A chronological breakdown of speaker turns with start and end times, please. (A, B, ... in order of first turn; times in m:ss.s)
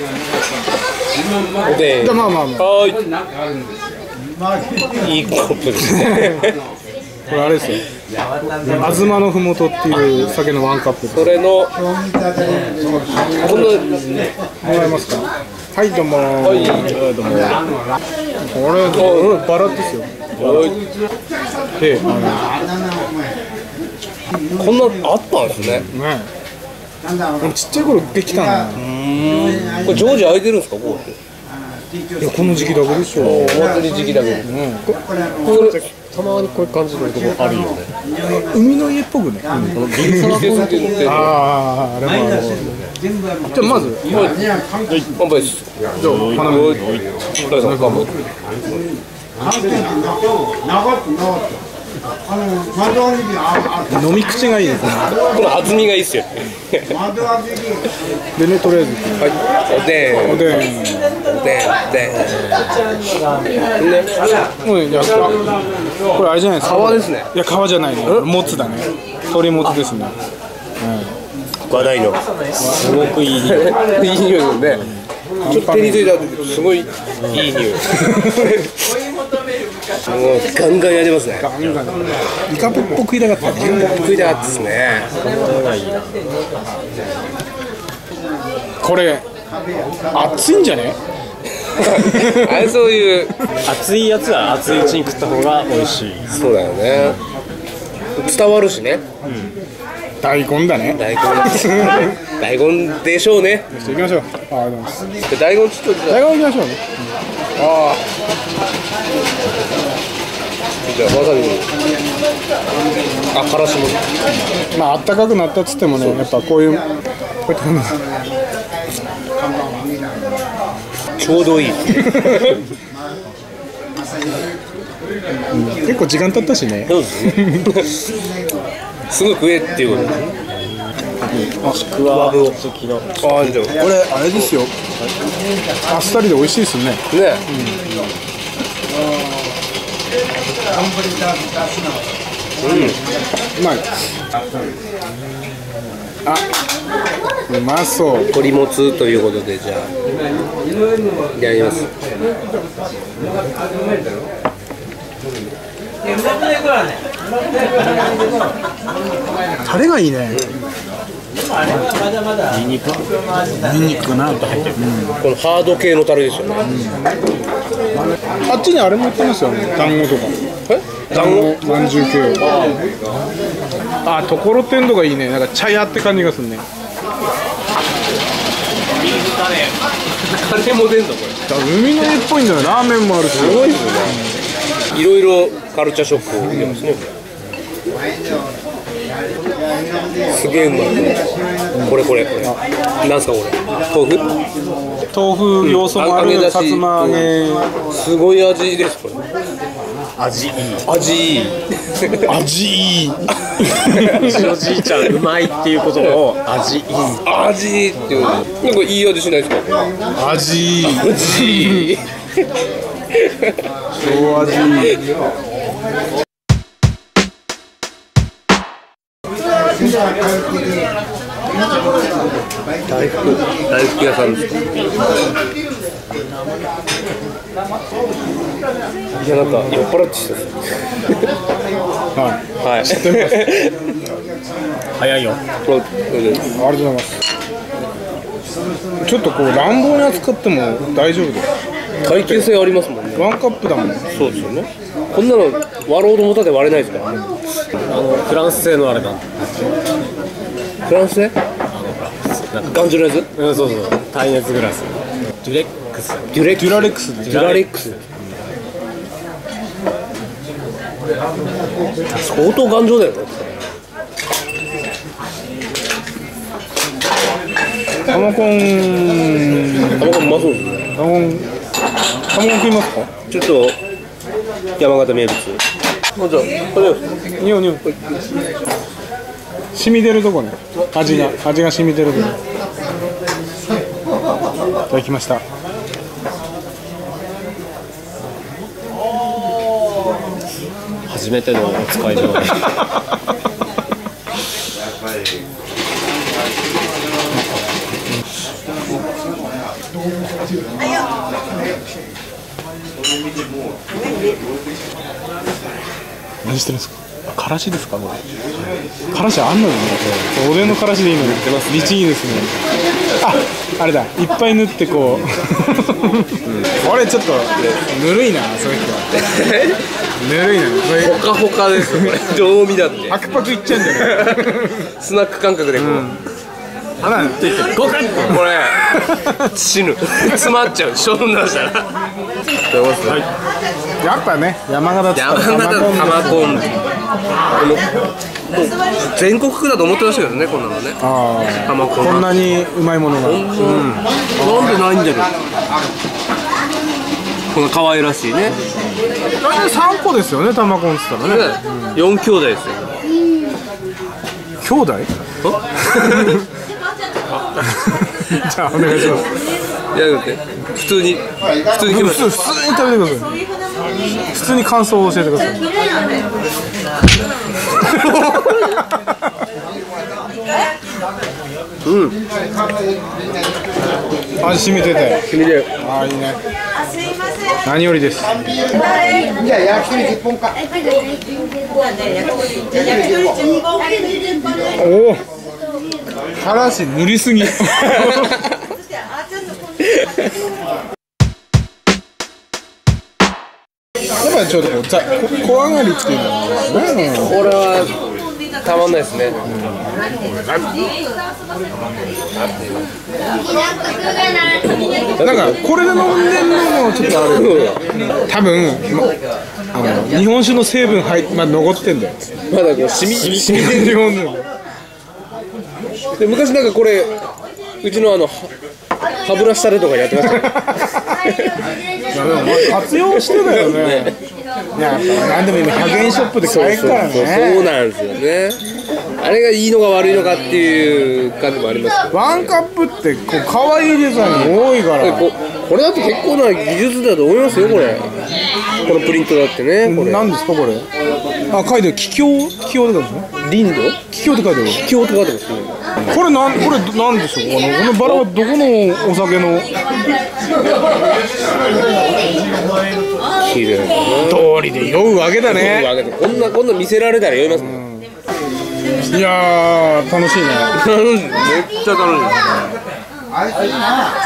0:01.6-0:03.0 A
0:02.0-0:02.7 B
0:05.0-0:06.6 A
0:05.9-0:06.4 B
0:07.3-0:07.8 B
0:08.6-0:11.4 B
0:11.1-0:11.8 A
0:13.4-0:14.0 A
0:14.6-0:17.0 B
0:16.4-0:17.0 A
0:16.7-0:17.6 C
0:18.5-0:20.1 B
0:18.9-0:19.5 A
0:20.4-0:20.8 A
0:20.4-0:20.7 C
0:21.8-0:22.6 B
0:24.6-0:25.9 A
0:25.8-0:26.3 B
0:27.4-0:28.8 B
0:28.8-0:31.2 A
0:29.3-0:30.0 C
0:32.2-0:33.7 B
0:33.1-0:34.5 A
0:34.4-0:35.0 B
0:35.4-0:35.8 A
0:35.4-0:37.9 C
0:38.5-0:40.4 B
0:39.7-0:41.3 C
0:40.0-0:41.4 A
0:41.0-0:42.8 B
0:43.5-0:44.1 B
0:44.0-0:44.4 A
0:45.2-0:45.7 A
0:46.0-0:46.8 B
0:46.0-0:47.1 C
0:46.4-0:46.8 A
0:47.4-0:48.1 A
0:47.4-0:48.1 B
0:53.8-0:55.2 B
0:55.2-0:57.0 A
0:58.4-0:59.3 B
0:59.2-1:00.6 A
1:00.1-1:01.1 B
1:01.2-1:02.5 A
1:03.8-1:04.1 A
1:04.6-1:05.5 B
1:06.1-1:10.2 B
1:06.6-1:07.3 A
1:10.8-1:11.1 B
1:11.7-1:12.2 A
1:12.6-1:13.8 C
1:13.3-1:14.9 A
1:15.4-1:16.1 B
1:15.4-1:18.9 A
1:17.9-1:18.5 B
1:20.0-1:21.5 A
1:21.4-1:24.0 B
1:23.8-1:25.1 A
1:25.2-1:26.2 C
1:28.8-1:29.2 B
1:30.1-1:31.0 B
1:31.7-1:33.3 A
1:31.9-1:32.7 B
1:33.6-1:36.3 C
1:36.3-1:37.2 A
1:38.2-1:39.0 A
1:40.2-1:42.1 B
1:40.9-1:43.7 A
1:43.7-1:45.0 B
1:45.2-1:46.2 A
1:46.1-1:46.8 B
1:47.6-1:48.0 A
1:50.8-1:51.7 A
1:53.3-1:54.1 A
1:54.7-1:56.9 B
1:55.9-1:56.2 A
1:57.5-1:58.0 B
2:01.2-2:02.6 A
2:02.0-2:02.6 B
2:05.5-2:07.7 B
2:06.9-2:08.0 A
2:09.1-2:10.2 A
2:11.6-2:13.5 C
2:11.6-2:12.5 B
2:13.2-2:14.5 A
2:13.8-2:14.7 B
2:15.9-2:17.8 B
2:17.1-2:17.4 A
2:22.6-2:23.0 A
2:23.6-2:23.9 B
2:27.5-2:28.3 B
2:28.3-2:29.9 A
2:31.3-2:31.9 A
2:39.6-2:40.4 B
2:42.5-2:43.0 C
2:43.6-2:45.2 B
2:44.3-2:44.8 C
2:45.2-2:46.6 A
2:46.6-2:47.0 B
2:48.5-2:50.3 B
2:50.7-2:51.5 A
2:51.1-2:52.4 B
2:54.0-2:56.6 B
3:00.2-3:01.4 A
3:01.5-3:04.3 B
3:03.3-3:04.2 A
3:04.9-3:07.1 A
3:06.4-3:06.8 B
3:10.3-3:11.2 A
3:11.8-3:12.5 B
3:11.8-3:14.3 A
3:15.1-3:17.7 B
3:15.6-3:17.4 A
3:17.9-3:19.2 A
3:20.2-3:20.8 C
3:20.8-3:22.2 A
3:22.2-3:24.5 B
3:23.9-3:25.0 A
3:24.2-3:27.2 C
3:27.2-3:29.8 A
3:30.2-3:31.9 B
3:30.8-3:32.1 A
3:33.1-3:33.5 A
3:33.9-3:35.0 B
3:42.8-3:44.5 A
3:49.2-3:51.2 A
3:52.2-3:53.5 B
3:52.6-3:53.8 A
3:55.0-3:55.4 C
3:55.6-3:56.5 A
3:56.6-3:57.2 B
3:59.0-4:01.5 B
4:02.0-4:03.3 A
4:02.1-4:02.6 B
4:03.2-4:04.0 B
4:04.1-4:07.2 A
4:07.8-4:09.2 C
4:10.9-4:11.3 A
4:11.7-4:16.3 C
4:12.6-4:13.3 A
4:16.3-4:18.0 A
4:16.5-4:17.4 B
4:17.2-4:18.0 C
4:22.1-4:23.5 A
4:28.1-4:30.4 B
4:30.0-4:30.9 A
4:30.9-4:31.5 B
4:32.3-4:33.1 B
4:33.3-4:33.8 A
4:34.8-4:35.6 A
4:36.1-4:37.2 A
4:37.4-4:37.9 B
4:39.7-4:42.4 B
4:40.8-4:41.4 A
4:44.9-4:45.4 B
4:51.1-4:52.7 C
5:06.4-5:08.2 B
5:09.1-5:12.5 B
5:11.2-5:11.9 C
5:13.2-5:19.1 B
5:19.1-5:19.8 A
5:20.2-5:22.2 B
5:21.0-5:26.1 A
5:23.1-5:24.8 B
5:25.8-5:26.2 B
5:27.0-5:27.6 B
5:27.1-5:28.4 C
5:28.2-5:31.9 A
5:28.9-5:29.4 B
5:32.7-5:33.2 A
5:34.0-5:36.8 B
5:35.1-5:36.8 A
5:37.6-5:37.9 A
5:38.5-5:41.0 A
5:41.0-5:43.9 B
5:41.6-5:42.4 A
5:43.2-5:45.3 A
5:44.4-5:44.8 B
5:47.5-5:48.6 A
5:49.4-5:52.0 B
5:51.2-5:53.0 A
5:54.6-5:55.1 B
5:55.4-5:56.4 A
5:57.6-5:59.3 B
5:58.8-5:59.2 A
5:59.9-6:02.3 A
6:01.8-6:03.3 B
6:04.3-6:05.6 B
6:07.8-6:08.8 B
6:08.1-6:08.8 A
6:11.8-6:12.2 A
6:14.4-6:15.3 B
6:15.3-6:15.7 A
6:15.8-6:16.4 B
6:17.6-6:18.4 B
6:24.8-6:25.2 B
6:26.4-6:28.4 B
6:27.6-6:28.5 A
6:34.2-6:37.4 B
6:37.1-6:38.0 A
6:38.6-6:39.4 A
6:39.4-6:39.9 B
6:42.3-6:42.8 A
6:45.2-6:45.6 A
6:45.2-6:49.1 B
6:47.1-6:47.8 A
6:49.7-6:52.2 B
6:52.5-6:54.1 A
6:53.1-6:54.4 B
6:56.2-6:57.2 A
6:57.8-6:58.5 A
6:59.2-7:01.6 A
7:00.2-7:01.0 B
7:02.1-7:04.2 B
7:02.4-7:04.1 A
7:04.8-7:07.7 B
7:06.3-7:08.6 A
7:09.2-7:12.5 A
7:12.1-7:15.3 B
7:14.2-7:18.2 A
7:18.8-7:20.3 A
7:19.8-7:20.9 B
7:21.5-7:23.3 B
7:23.4-7:24.0 A
7:24.1-7:24.8 B
7:24.7-7:25.8 A
7:26.1-7:29.7 B
7:33.4-7:34.5 A
7:34.2-7:35.9 B
7:35.4-7:37.8 A
7:37.5-7:38.1 B
7:39.1-7:40.7 B
7:40.7-7:42.7 A